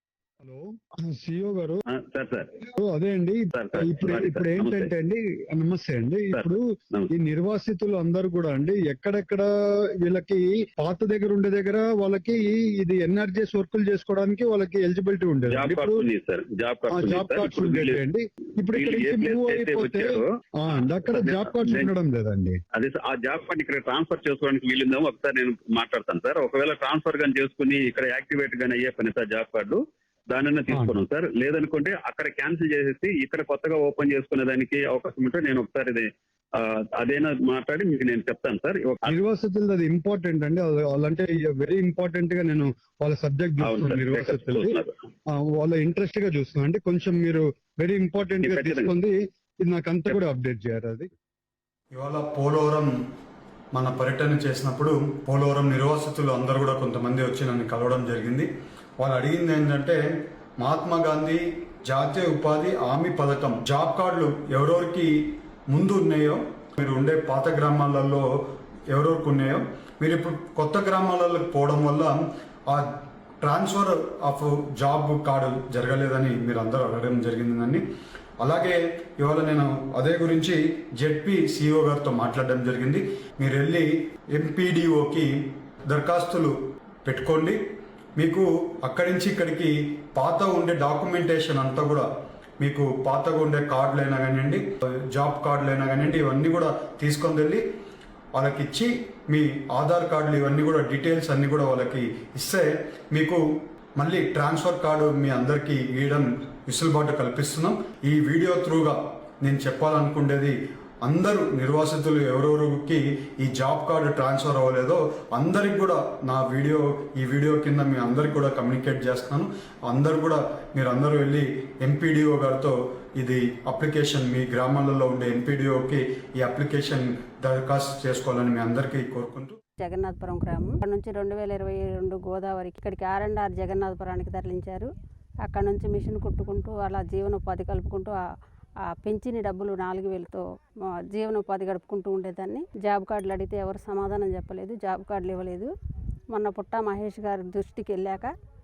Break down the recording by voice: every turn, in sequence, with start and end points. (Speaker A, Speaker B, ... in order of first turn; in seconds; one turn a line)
Speaker A: 0.4-1.8
Speaker B: 1.9-2.5
Speaker A: 2.7-16.1
Speaker B: 3.5-4.9
Speaker B: 6.3-7.1
Speaker B: 15.5-18.0
Speaker A: 16.9-22.6
Speaker B: 18.7-20.3
Speaker B: 20.9-21.9
Speaker B: 22.7-39.1
Speaker A: 30.7-30.9
Speaker A: 39.0-44.8
Speaker B: 43.6-45.0
Speaker A: 45.3-51.1
Speaker B: 48.4-48.9
Speaker C: 51.9-52.9
Speaker C: 53.7-60.0
Speaker C: 60.6-65.1
Speaker C: 65.7-68.2
Speaker C: 68.9-72.9
Speaker C: 73.4-77.8
Speaker C: 78.4-85.3
Speaker C: 85.9-86.5
Speaker C: 87.0-87.6
Speaker C: 88.2-92.1
Speaker C: 92.6-97.6
Speaker C: 98.3-103.4
Speaker C: 104.0-129.6
Speaker D: 129.8-134.9
Speaker D: 135.4-138.2
Speaker D: 138.8-140.4
Speaker D: 141.1-145.7
Speaker D: 146.3-148.3